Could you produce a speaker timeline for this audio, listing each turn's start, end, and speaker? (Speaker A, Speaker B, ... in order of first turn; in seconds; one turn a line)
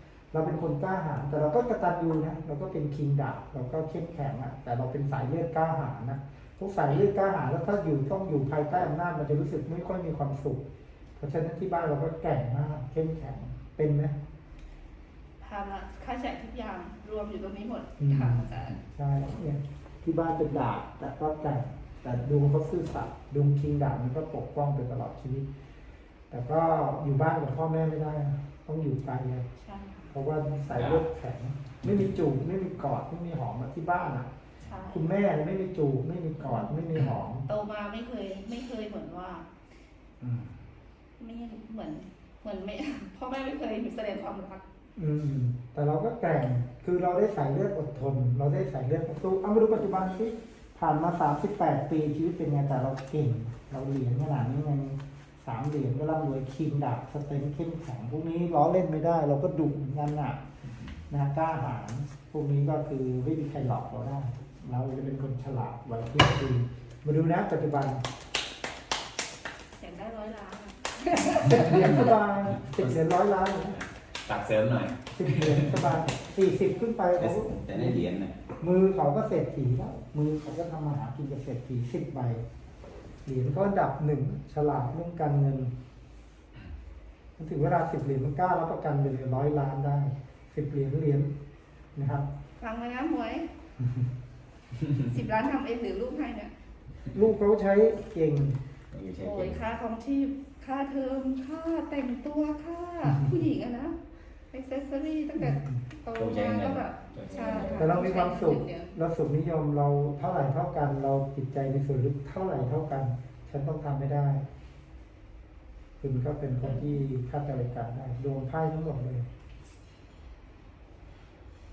Speaker A: 0.3-10.6
Speaker A: 11.2-14.2
Speaker B: 15.4-18.8
Speaker A: 18.0-25.4
Speaker A: 26.3-29.4
Speaker B: 29.6-30.1
Speaker A: 30.1-34.3
Speaker C: 30.7-31.0
Speaker B: 34.6-35.1
Speaker A: 34.9-37.5
Speaker B: 36.4-36.7
Speaker B: 37.5-39.5
Speaker A: 40.2-40.5
Speaker B: 41.2-44.6
Speaker A: 45.0-60.4
Speaker A: 61.1-68.0
Speaker B: 69.8-72.1
Speaker A: 71.2-73.8
Speaker C: 72.5-72.9
Speaker C: 73.8-76.0
Speaker A: 75.1-78.0
Speaker C: 77.2-78.4
Speaker A: 78.6-82.4
Speaker A: 83.2-85.7
Speaker A: 87.4-91.3
Speaker A: 91.9-92.3
Speaker B: 92.6-93.5
Speaker B: 95.0-96.5
Speaker A: 97.1-98.6
Speaker C: 98.9-99.6
Speaker B: 99.2-104.0
Speaker B: 104.5-109.0
Speaker A: 105.4-105.8
Speaker C: 106.1-108.0
Speaker A: 107.7-114.4
Speaker A: 116.0-119.2
Speaker B: 116.6-117.0